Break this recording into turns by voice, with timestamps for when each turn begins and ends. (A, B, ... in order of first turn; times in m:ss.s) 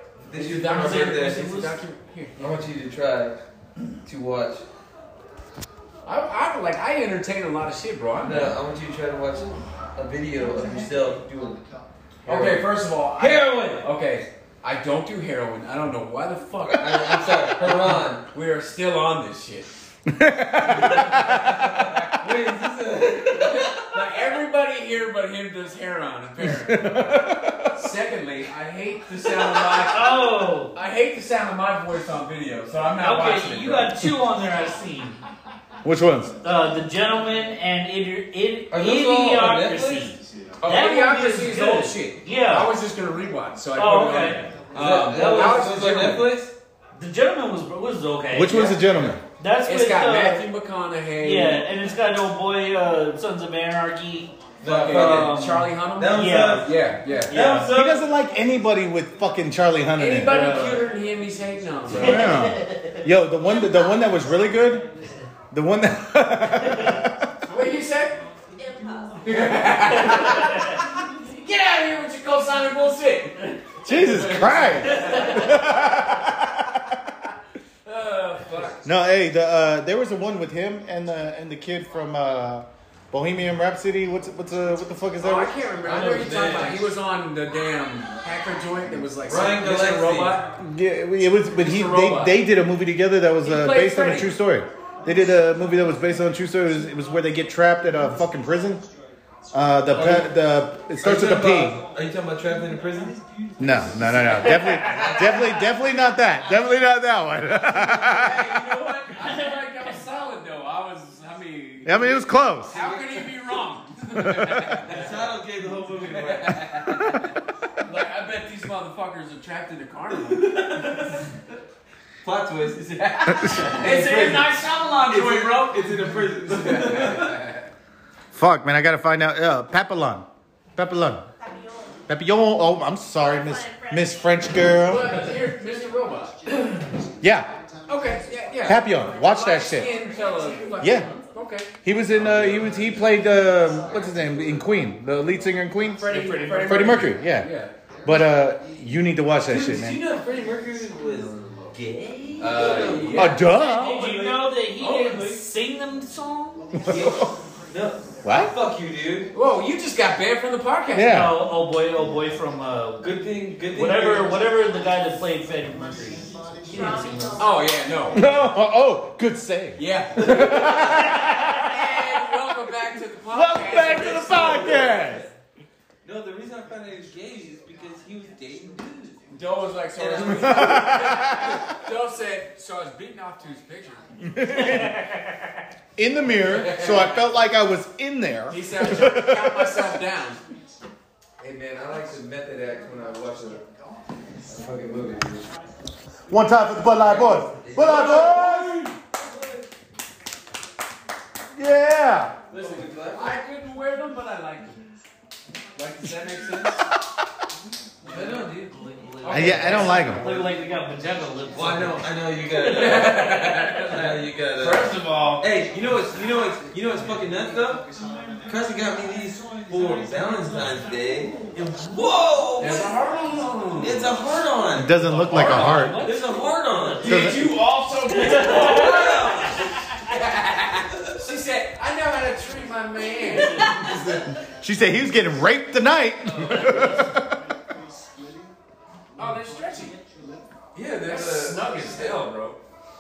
0:00.2-0:01.6 A
0:00.3-0:02.6 B
0:00.7-0:01.7 C
0:02.4-0:03.4 A
0:04.0-0:04.6 A
0:06.0-0:08.6 B
0:08.2-0:11.6 A
0:12.2-0:13.8 A
0:12.3-0:19.7 B
0:16.7-0:18.2 A
0:20.1-0:21.5 D
0:20.7-0:24.0 A
0:20.9-0:22.1 B
0:23.3-0:27.2 B
0:26.4-0:27.8 D
0:27.7-0:34.0 B
0:29.8-0:30.8 C
0:33.0-0:35.2 C
0:35.8-0:36.4 D
0:36.4-0:42.7 C
0:38.7-0:40.2 A
0:40.6-0:46.3 B
0:43.8-0:44.5 C
0:44.7-0:46.5 A
0:45.1-0:45.7 C
0:47.0-0:50.4 C
0:48.3-0:49.2 D
0:49.6-0:51.7 B
0:51.2-0:56.7 C
0:54.6-0:55.4 A
0:54.6-0:57.4 B
0:56.0-0:56.7 A
0:57.2-0:57.7 C
0:57.3-0:58.1 A
0:57.7-1:00.4 D
1:00.0-1:02.4 B
1:00.3-1:00.8 C
1:01.9-1:04.9 D
1:01.9-1:03.0 C
1:03.4-1:04.3 E
1:05.5-1:07.3 D
1:07.4-1:08.2 B
1:08.6-1:09.3 E
1:09.2-1:15.6 B
1:10.5-1:10.8 C
1:13.8-1:17.1 D
1:17.8-1:18.9 B
1:18.8-1:25.6 D
1:25.2-1:30.5 B
1:25.8-1:26.9 A
1:29.2-1:30.4 A
1:30.6-1:38.8 D
1:31.6-1:32.4 B
1:33.4-1:34.4 B
1:39.5-1:41.8 D
1:39.9-1:40.3 A
1:41.0-1:45.7 A
1:43.6-1:48.5 D
1:44.6-1:45.4 C
1:47.9-1:55.3 B
1:49.2-1:49.5 C
1:51.8-1:52.8 D
1:52.7-1:53.3 A
1:54.2-1:54.8 D
1:54.9-1:57.1 A
1:56.0-1:57.1 B
1:57.8-2:00.6 B
2:00.1-2:01.2 A
2:02.2-2:07.5 A
2:03.0-2:07.5 B
2:08.3-2:11.3 D
2:11.4-2:12.0 E
2:12.1-2:15.3 D
2:13.2-2:14.9 E
2:14.8-2:16.8 B
2:17.2-2:17.6 D
2:17.9-2:21.7 B
2:18.6-2:19.9 D
2:20.8-2:21.1 D
2:21.8-2:27.5 D
2:22.1-2:23.2 A
2:23.8-2:24.5 A
2:26.0-2:27.7 B
2:26.1-2:26.6 A
2:26.1-2:26.7 C
2:28.0-2:30.0 D
2:29.5-2:35.3 A
2:32.4-2:33.5 B
2:33.1-2:34.2 D
2:33.5-2:36.9 C
2:34.8-2:35.3 B
2:36.8-2:37.4 D
2:36.9-2:39.3 A
2:38.2-2:38.5 D
2:39.3-2:41.2 B
2:40.9-2:41.4 D
2:41.0-2:47.4 C
2:43.0-2:44.5 A
2:46.7-2:47.7 E
2:47.4-2:48.3 B
2:48.1-2:51.7 D
2:49.8-2:55.0 B
2:53.3-2:55.3 D
2:53.8-2:55.3 A
2:56.0-2:59.2 A
2:59.3-3:04.1 B
3:00.0-3:01.1 A
3:00.2-3:01.6 D
3:04.2-3:05.0 D
3:06.0-3:10.0 D
3:06.4-3:07.3 B
3:08.5-3:10.4 B
3:11.4-3:13.7 A
3:14.4-3:15.5 A
3:16.3-3:18.8 D
3:17.0-3:18.9 A
3:17.7-3:18.9 B
3:21.5-3:22.4 D
3:22.5-3:23.4 A
3:22.6-3:24.8 B
3:25.8-3:26.9 B
3:28.0-3:28.8 A
3:28.1-3:28.4 B
3:28.6-3:32.1 C
3:29.2-3:30.6 B
3:29.3-3:30.2 D
3:31.5-3:37.9 A
3:32.6-3:35.4 B
3:32.6-3:33.0 C
3:38.5-3:43.0 A
3:42.6-3:44.2 B
3:43.8-3:47.3 A
3:44.8-3:46.0 D
3:45.2-3:46.0 B
3:45.2-3:47.5 C
3:47.0-3:53.9 B
3:47.0-3:47.6 D
3:48.1-3:49.4 C
3:48.2-3:49.8 A
3:53.4-3:53.8 C
3:53.7-3:57.4 D
3:59.2-4:00.0 B
4:00.8-4:02.2 A
4:00.8-4:02.6 B